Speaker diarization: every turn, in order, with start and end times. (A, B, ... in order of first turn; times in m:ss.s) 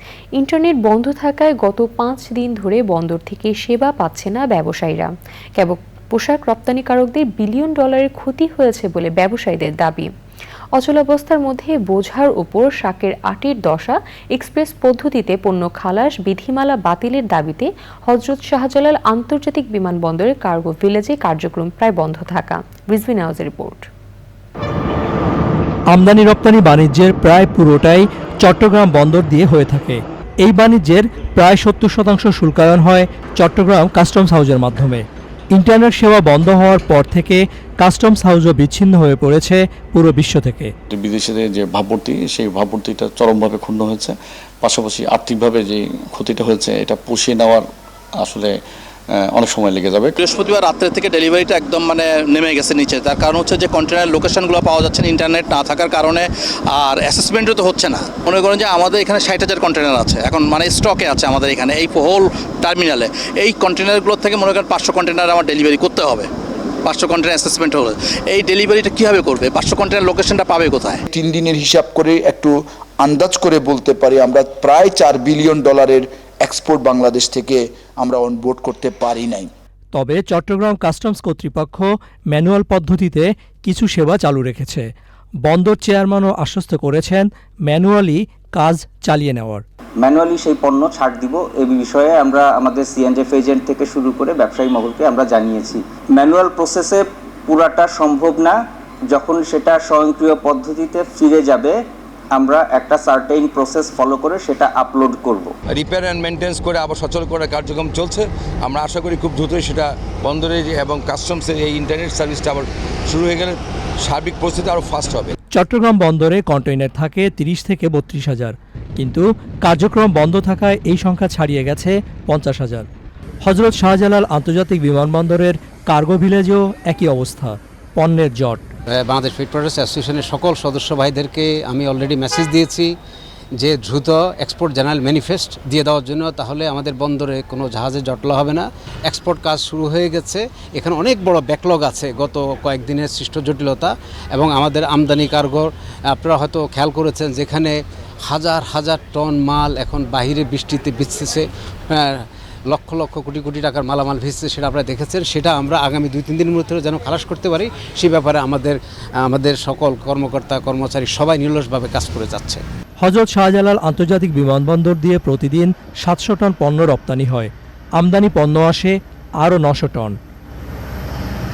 0:00.4-0:10.1 A
0:10.8-0:23.9 A
0:25.9-0:40.7 B
0:40.9-0:47.7 C
0:48.2-0:48.5 C
0:49.1-0:50.1 C
0:50.2-1:06.3 D
1:06.8-1:11.0 D
1:11.1-1:19.5 E
1:19.9-1:24.9 B
1:25.4-1:29.6 B
1:30.0-1:45.6 F
1:45.7-1:55.3 G
1:55.6-2:02.9 B
2:03.4-2:08.6 B
2:08.9-2:13.0 H
2:13.6-2:42.6 H
2:43.0-2:50.2 B